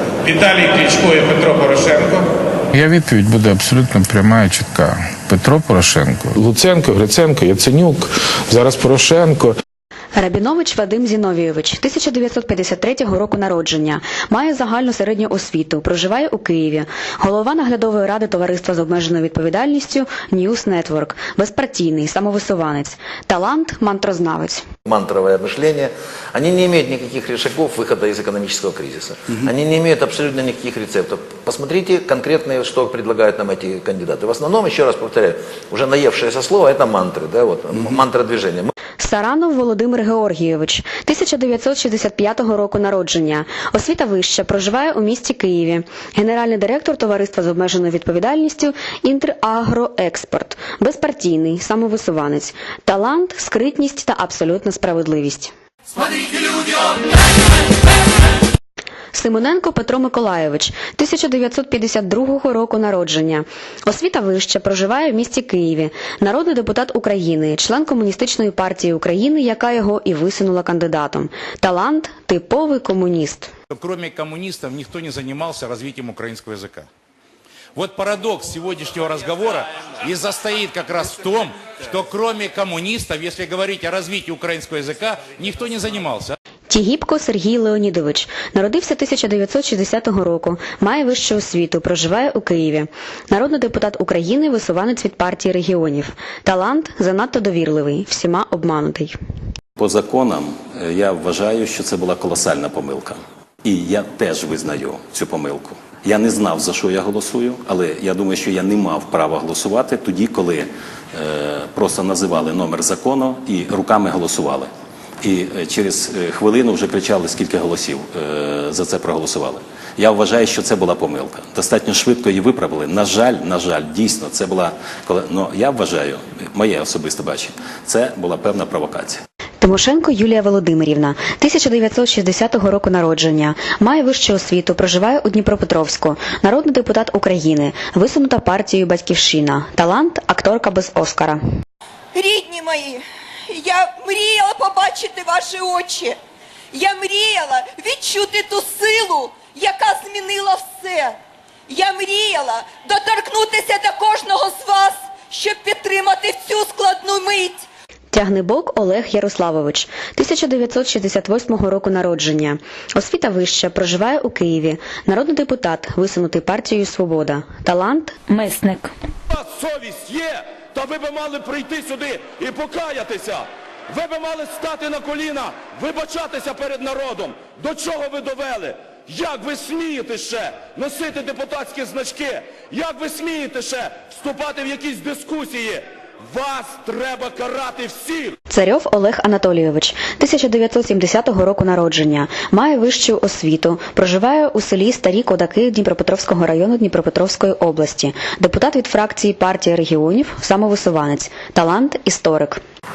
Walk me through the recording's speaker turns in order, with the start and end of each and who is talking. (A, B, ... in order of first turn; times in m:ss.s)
0:00.2-0:02.3 A
0:02.7-0:09.6 B
0:10.2-0:24.6 C
0:24.9-0:38.7 D
0:39.0-0:55.5 C
0:59.1-1:13.5 C
1:13.7-1:16.9 E
1:17.8-1:26.4 E
1:26.7-1:39.2 C
1:39.8-1:54.7 F
1:55.2-2:09.2 F
2:09.6-2:21.4 C
2:22.1-2:26.2 G
2:26.7-2:31.2 G
2:31.7-2:37.7 G
2:38.1-2:48.2 C
2:48.3-2:48.9 G
2:49.3-3:08.4 H
3:08.5-3:22.6 C